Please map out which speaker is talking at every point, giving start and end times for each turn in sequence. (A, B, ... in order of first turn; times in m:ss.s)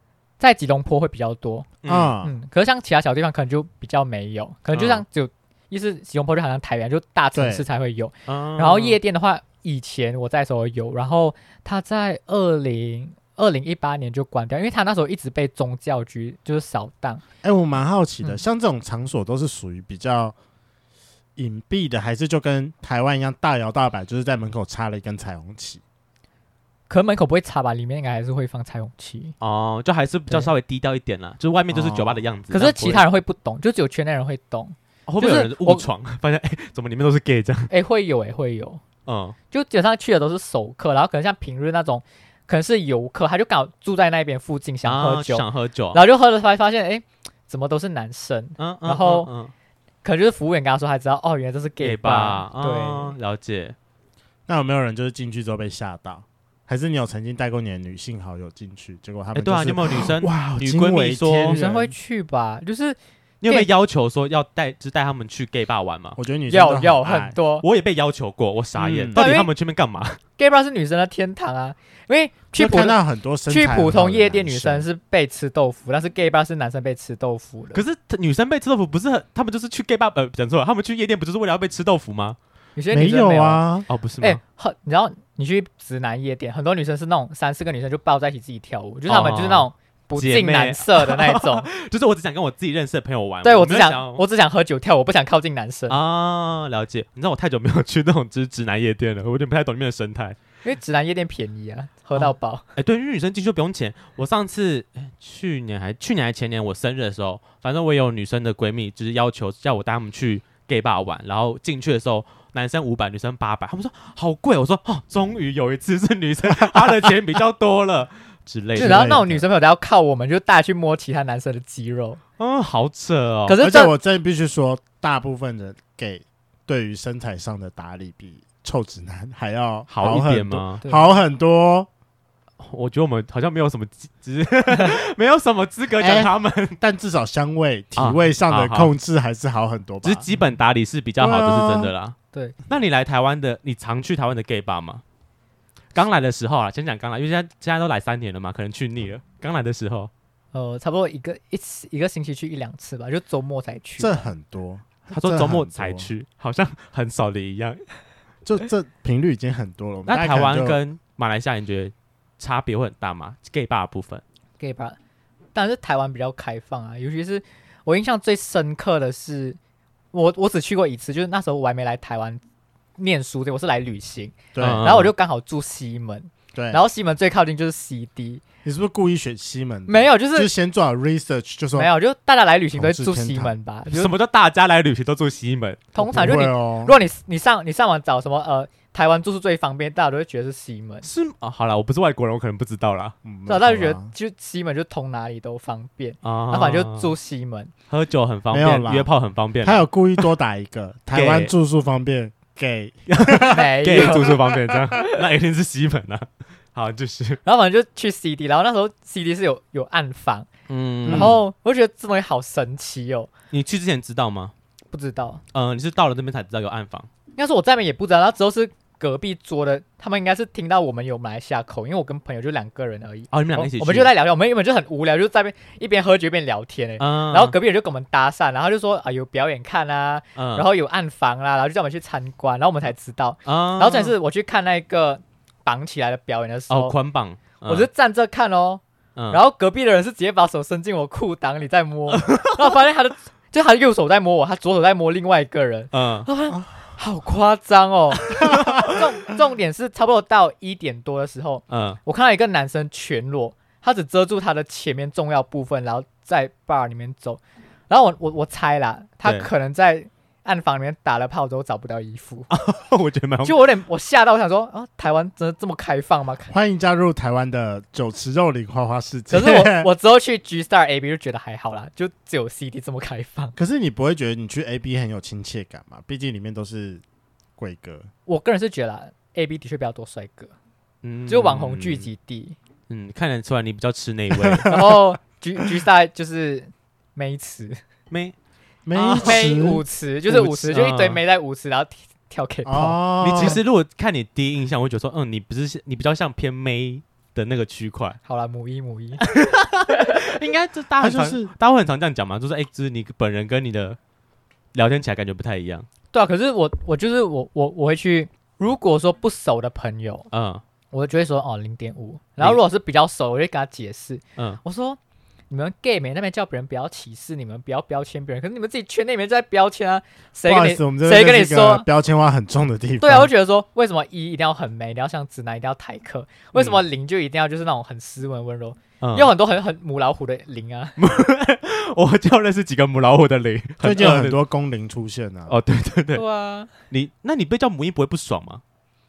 0:00.4-0:01.7 A
0:01.8-0:02.1 B
0:01.9-0:02.3 C
0:02.2-0:17.2 A
0:04.7-0:05.0 B
0:07.3-0:07.6 C
0:08.3-0:09.0 B
0:17.4-0:20.3 C
0:21.4-0:25.8 C
0:26.9-0:29.3 A
0:29.4-0:33.1 B
0:31.7-0:32.2 C
0:32.5-0:35.9 A
0:35.1-0:37.7 B
0:37.7-0:38.8 A
0:39.0-0:39.4 B
0:39.5-0:49.3 A
0:44.8-0:46.0 B
0:48.6-0:49.5 B
0:50.0-0:53.1 A
0:51.8-0:53.8 B
0:54.5-1:01.9 C
0:59.3-1:01.6 B
1:01.4-1:03.7 A
1:03.4-1:06.2 B
1:06.2-1:07.4 C
1:06.5-1:07.6 A
1:07.6-1:10.2 B
1:08.8-1:09.2 C
1:09.1-1:09.5 A
1:10.4-1:17.8 A
1:12.5-1:14.8 C
1:17.7-1:22.4 B
1:22.8-1:23.6 A
1:22.9-1:23.8 C
1:23.9-1:24.4 B
1:24.2-1:31.7 A
1:29.1-1:34.2 B
1:33.4-1:36.0 A
1:35.9-1:40.4 B
1:40.6-1:42.6 A
1:42.1-1:59.2 B
1:56.6-1:56.9 C
1:58.8-1:59.4 C
1:58.8-2:02.2 A
2:02.4-2:03.6 B
2:03.4-2:03.9 A
2:03.6-2:11.9 C
2:09.9-2:10.8 B
2:10.8-2:11.1 A
2:12.6-2:16.8 B
2:16.0-2:20.2 C
2:18.0-2:18.9 B
2:20.0-2:22.2 B
2:21.2-2:21.9 C
2:22.7-2:25.0 B
2:25.9-2:30.1 B
2:30.5-2:34.2 A
2:34.0-2:36.1 C
2:35.1-2:37.8 B
2:38.4-2:40.8 C
2:40.1-2:44.2 B
2:44.6-2:45.0 A
2:45.5-2:49.6 A
2:50.1-2:52.4 A
2:53.0-2:58.4 A
2:54.5-2:55.0 C
2:54.6-2:55.1 B
2:56.5-2:56.8 C
2:58.6-3:01.9 C
2:59.9-3:00.5 A
3:01.7-3:04.1 A
3:02.7-3:03.5 C
3:03.9-3:05.9 B
3:05.9-3:11.1 A
3:06.0-3:07.0 C
3:11.0-3:13.2 B
3:13.2-3:14.1 C
3:13.5-3:17.7 A
3:16.2-3:17.1 B
3:17.9-3:20.2 B
3:18.5-3:19.1 C
3:19.6-3:24.9 C
3:21.1-3:21.5 B
3:23.1-3:27.4 B
3:23.5-3:24.4 A
3:27.4-3:30.5 A
3:30.7-3:31.4 B
3:31.0-3:31.4 C
3:31.1-3:33.3 A
3:33.5-3:34.5 B
3:34.9-3:35.4 A
3:35.5-3:37.1 B
3:37.4-3:57.0 A
3:43.3-3:44.1 B
3:47.0-3:47.6 B
3:50.4-3:50.7 B
3:53.4-3:54.1 B
3:56.7-3:57.9 B
3:57.6-4:22.5 A
4:02.1-4:02.7 B
4:05.9-4:06.3 B
4:08.5-4:08.9 C
4:11.7-4:12.0 B
4:19.2-4:19.5 B
4:22.5-4:23.6 B
4:23.4-4:26.5 A
4:26.5-4:29.9 C
4:29.3-4:33.6 A
4:33.6-4:37.0 C
4:37.6-4:38.1 C
4:38.2-4:40.5 A
4:41.0-4:42.1 B
4:41.3-4:42.6 A
4:42.9-4:44.8 B
4:44.3-4:45.0 C
4:44.7-4:47.8 A
4:48.1-4:48.3 B
4:48.8-4:49.8 C
4:48.9-4:49.4 B
4:49.2-4:53.6 A
4:50.3-4:51.2 B
4:52.6-4:53.6 C
4:53.2-4:58.2 B
4:58.2-4:59.2 A
4:59.2-5:04.0 B
4:59.9-5:00.2 A
5:01.0-5:01.5 C
5:04.7-5:05.9 B
5:06.1-5:10.3 A
5:10.3-5:10.6 B
5:10.9-5:15.0 A
5:15.5-5:21.8 A
5:20.4-5:23.3 C
5:23.0-5:31.0 A
5:26.5-5:26.8 B
5:29.0-5:29.3 B
5:31.0-5:34.4 B
5:33.8-5:35.6 C
5:35.5-5:36.2 B
5:36.1-5:36.7 A
5:36.9-5:38.6 B